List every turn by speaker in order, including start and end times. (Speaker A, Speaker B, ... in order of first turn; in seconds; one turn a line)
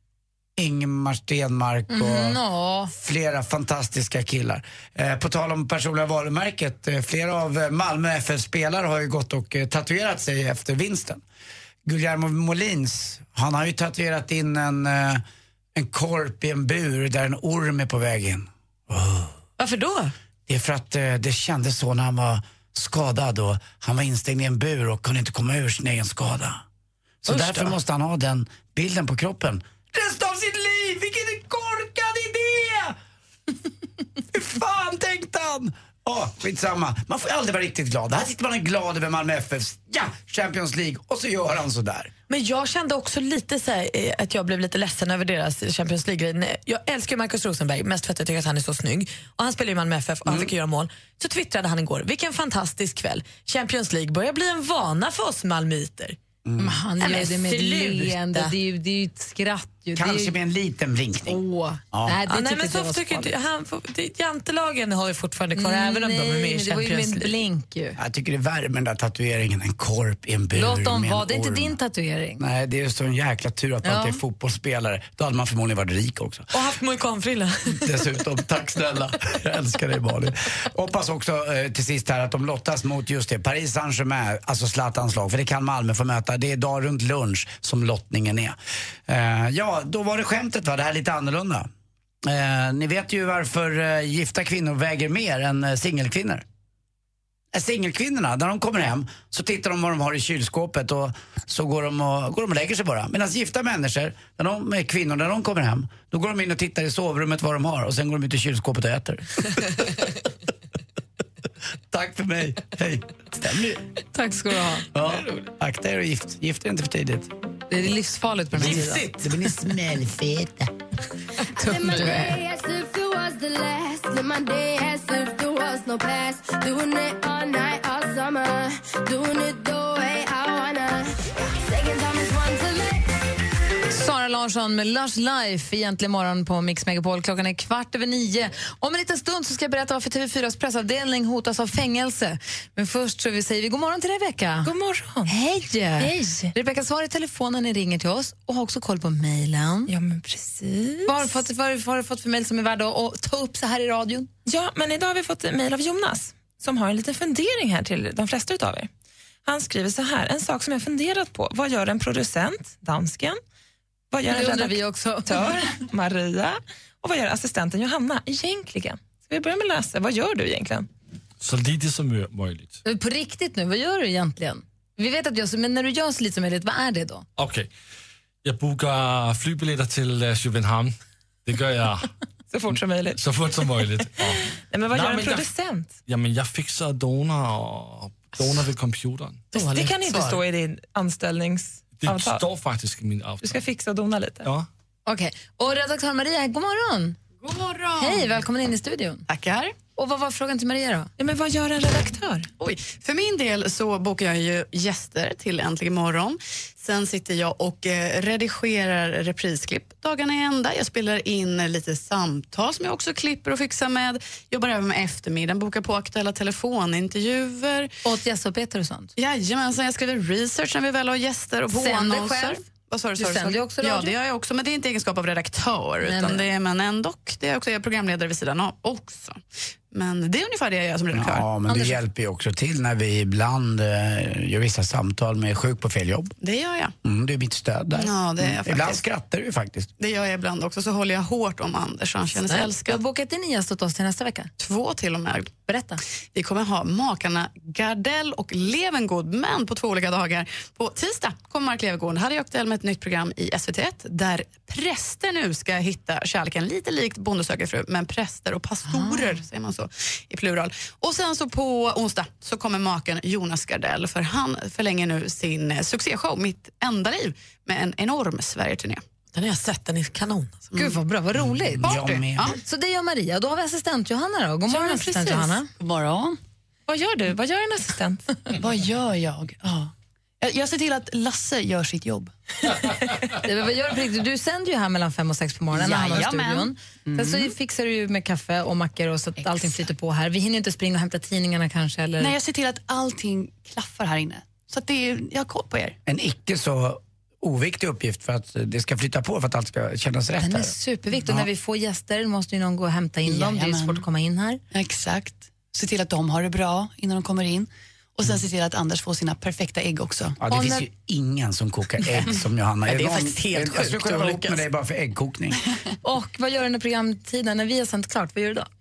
Speaker A: 0.6-11.2
Speaker B: 1.9-2.9
Speaker A: 11.8-15.2
Speaker A: 15.8-19.3
Speaker C: 19.6-20.1
Speaker A: 20.5-26.6
Speaker A: 27.2-33.0
Speaker C: 27.3-27.7
Speaker A: 34.3-42.1
Speaker C: 42.3-56.2
Speaker A: 50.3-50.5
Speaker A: 56.5-56.8
Speaker B: 56.6-60.4
Speaker C: 57.0-58.5
Speaker A: 60.0-61.4
Speaker B: 61.3-63.4
Speaker A: 61.9-62.2
Speaker C: 62.3-67.3
Speaker B: 65.5-68.0
Speaker A: 68.0-71.8
Speaker B: 70.6-72.4
Speaker A: 72.4-76.5
Speaker B: 73.8-74.2
Speaker C: 76.5-77.8
Speaker A: 77.7-88.6
Speaker A: 89.1-91.7
Speaker A: 92.2-96.4
Speaker A: 97.5-109.7
Speaker A: 111.9-113.8
Speaker B: 114.1-114.9
Speaker A: 114.9-117.3
Speaker C: 115.0-115.4
Speaker B: 117.7-119.1
Speaker C: 118.6-119.3
Speaker A: 118.6-120.7
Speaker D: 121.6-133.1
Speaker B: 121.6-122.4
Speaker B: 133.9-144.7
Speaker E: 144.6-145.3
Speaker B: 145.3-149.9
Speaker E: 146.0-146.5
Speaker E: 149.9-151.4
Speaker B: 151.1-154.3
Speaker E: 154.4-158.9
Speaker E: 159.4-163.4
Speaker E: 164.1-170.9
Speaker B: 164.3-165.3
Speaker F: 171.4-172.8
Speaker B: 172.8-177.3
Speaker F: 177.4-177.7
Speaker F: 178.4-180.9
Speaker F: 181.5-182.1
Speaker E: 182.5-183.2
Speaker F: 182.7-185.5
Speaker E: 184.3-186.0
Speaker F: 186.1-189.5
Speaker C: 189.5-190.4
Speaker E: 189.6-192.4
Speaker F: 191.9-193.6
Speaker E: 193.4-194.5
Speaker F: 194.4-194.7
Speaker B: 195.1-197.2
Speaker G: 197.4-198.4
Speaker B: 198.0-199.3
Speaker G: 199.3-199.8
Speaker B: 199.9-201.1
Speaker E: 201.2-202.5
Speaker G: 202.6-217.9
Speaker B: 218.0-219.1
Speaker G: 219.2-231.5
Speaker B: 221.7-222.6
Speaker B: 223.2-224.2
Speaker B: 226.0-226.4
Speaker A: 231.1-236.3
Speaker B: 231.7-232.0
Speaker G: 236.4-236.9
Speaker A: 237.0-239.9
Speaker G: 237.9-239.0
Speaker G: 240.0-243.0
Speaker B: 242.8-244.5
Speaker G: 244.6-245.5
Speaker B: 245.7-246.0
Speaker G: 246.3-269.0
Speaker B: 258.8-259.4
Speaker C: 269.3-270.7
Speaker B: 270.8-275.7
Speaker A: 271.5-272.6
Speaker E: 274.7-275.5
Speaker H: 275.8-276.4
Speaker E: 276.9-278.2
Speaker H: 278.6-282.3
Speaker B: 283.4-292.4
Speaker H: 285.7-287.5
Speaker H: 289.4-289.8
Speaker H: 292.2-296.0
Speaker A: 296.1-300.8
Speaker B: 300.4-304.6
Speaker H: 303.2-304.1
Speaker H: 304.7-310.4
Speaker A: 310.4-315.6
Speaker B: 310.5-310.9
Speaker C: 312.9-314.6
Speaker B: 316.0-318.7